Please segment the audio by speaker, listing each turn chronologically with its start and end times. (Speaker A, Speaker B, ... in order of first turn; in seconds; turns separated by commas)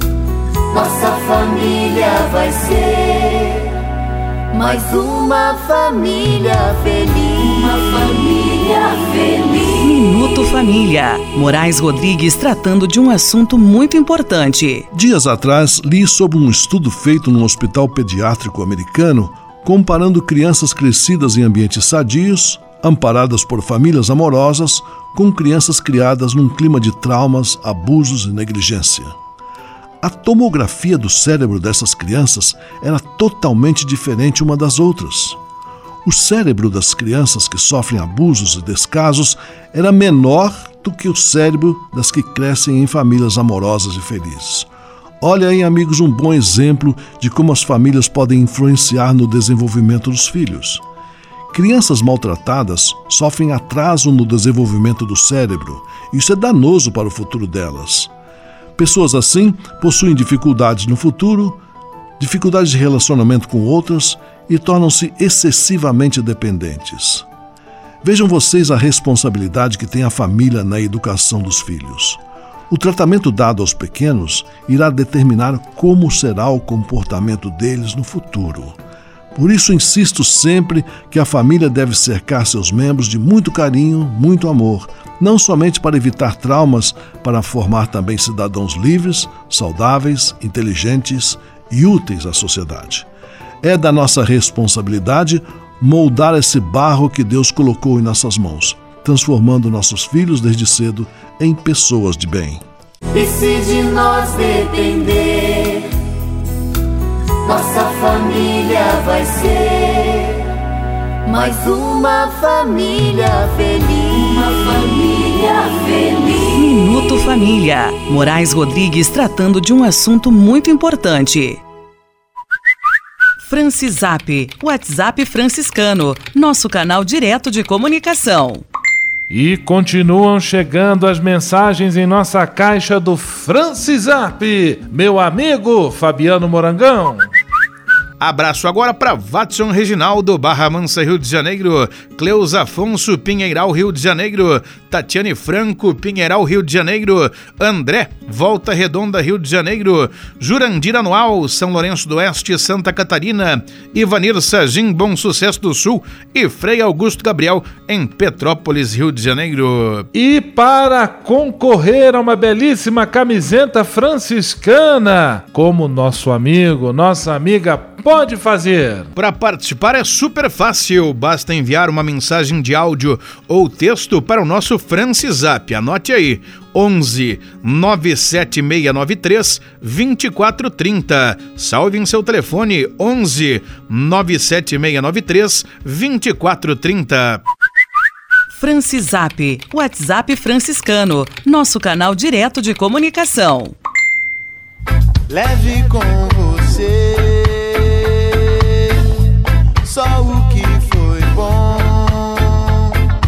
Speaker A: 0.7-2.9, Speaker A: 4.5-7.4, Speaker B: 9.8-14.9, Speaker C: 14.9-29.2, Speaker C: 30.0-35.4, Speaker C: 36.0-44.7, Speaker C: 45.2-50.8, Speaker C: 51.5-58.1, Speaker C: 58.8-61.6, Speaker C: 62.2-67.3, Speaker C: 68.0-78.8, Speaker C: 79.3-93.1, Speaker C: 93.6-102.6, Speaker A: 103.2-105.7, Speaker A: 107.5-110.0, Speaker A: 111.3-114.1, Speaker A: 114.8-115.5, Speaker B: 116.5-121.6, Speaker B: 123.4-128.6, Speaker D: 129.3-137.3, Speaker E: 138.2-160.1, Speaker D: 160.1-169.1, Speaker E: 169.2-187.4, Speaker B: 188.5-193.8, Speaker A: 195.3-198.7, Speaker A: 199.8-202.6